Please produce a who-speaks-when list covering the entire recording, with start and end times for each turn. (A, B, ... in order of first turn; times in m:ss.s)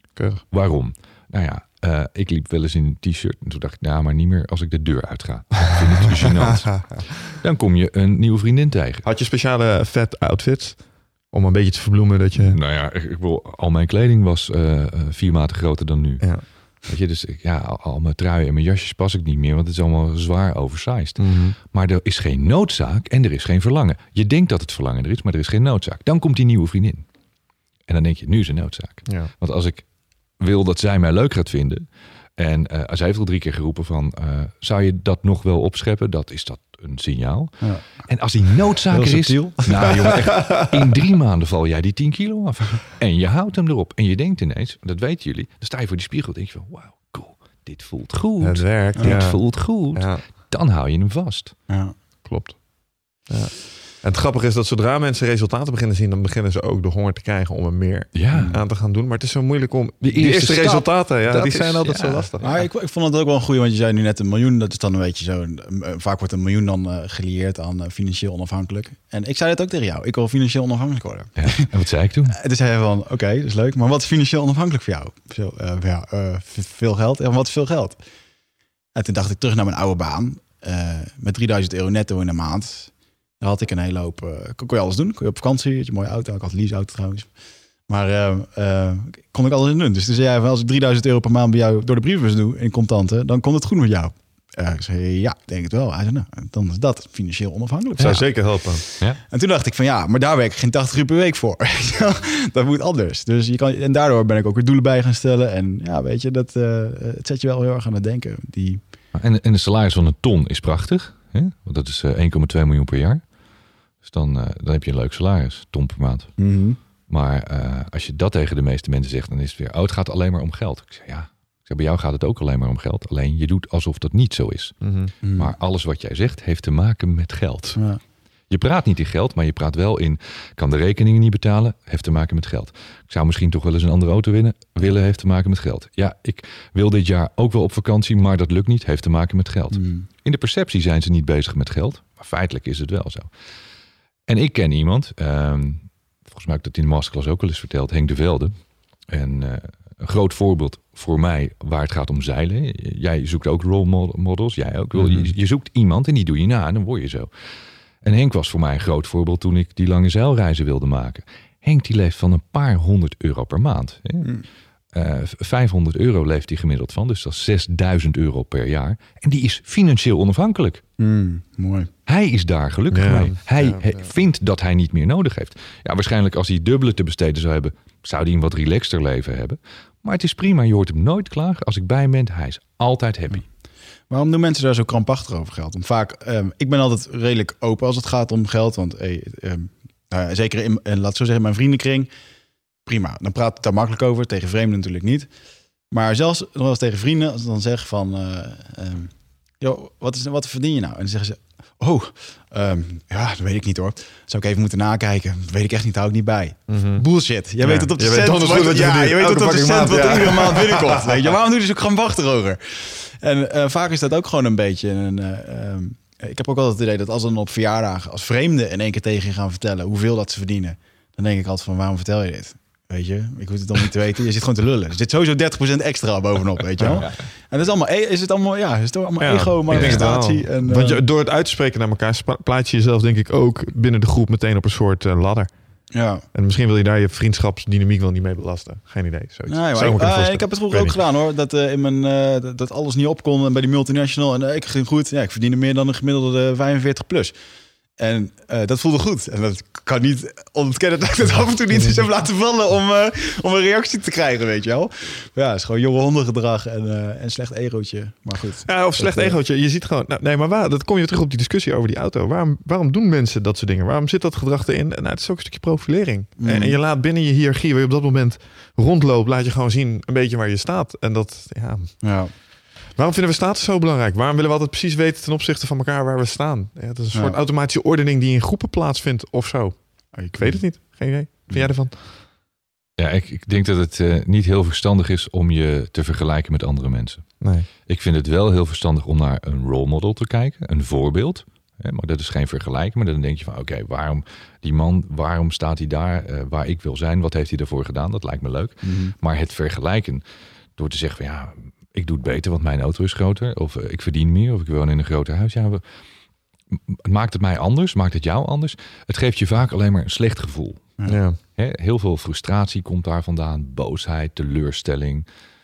0:00.2-0:00.4 A
0:00.5-0:09.0 B
0:06.6-0:07.0 A
0:09.0-0:12.6 A
0:12.4-0:27.0 B
0:16.2-0:16.5 A
0:21.2-0:21.6 A
0:27.9-0:29.8 B
0:29.1-0:29.3 A
0:30.4-0:31.8 B
0:32.4-0:51.6 B
0:37.6-0:38.1 C
0:38.9-0:40.0 C
0:39.8-0:40.7 A
0:48.4-0:50.2 A
0:51.7-0:51.9 C
0:52.2-1:02.6 A
0:58.1-0:58.6 B
0:58.3-0:58.6 C
1:00.0-1:02.3 B
1:02.4-1:11.7 C
1:11.4-1:12.3 B
1:12.3-1:18.0 C
1:18.9-1:27.3 C
1:27.9-1:48.8 C
1:38.0-1:38.3 B
1:38.0-1:38.8 A
1:49.1-1:53.2 B
1:54.0-1:56.3 B
1:56.4-1:56.8 C
1:57.1-2:04.8 B
2:04.8-2:05.1 A
2:05.2-2:05.5 C
2:05.3-2:07.8 B
2:07.8-2:08.0 C
2:08.5-2:23.3 B
2:19.7-2:20.1 C
2:24.3-2:28.5 B
2:29.1-2:37.3 B
2:34.9-2:35.3 A
2:38.0-2:44.3 B
2:44.9-2:50.8 B
2:51.0-2:51.9 C
2:52.0-3:03.5 B
2:52.9-2:54.1 A
3:04.1-3:12.1 C
3:12.8-3:15.3 C
3:15.9-3:51.0 C
3:26.7-3:27.0 A
3:27.6-3:31.2 A
3:46.8-3:47.0 A
3:49.2-4:01.0 A
3:49.7-3:50.0 B
3:55.9-3:56.2 C
3:59.5-4:07.3 C
4:08.0-4:19.4 C
4:18.6-4:42.2 A
4:26.4-4:26.8 C
4:32.0-4:32.3 C
4:37.1-4:37.4 C
4:40.1-4:40.6 C
4:43.0-4:47.3 B
4:47.4-4:47.7 A
4:47.8-5:00.2 B
4:58.8-4:59.1 C
5:00.8-5:05.8 B
5:06.7-5:10.9 B
5:11.1-5:11.4 A
5:11.6-5:15.2 B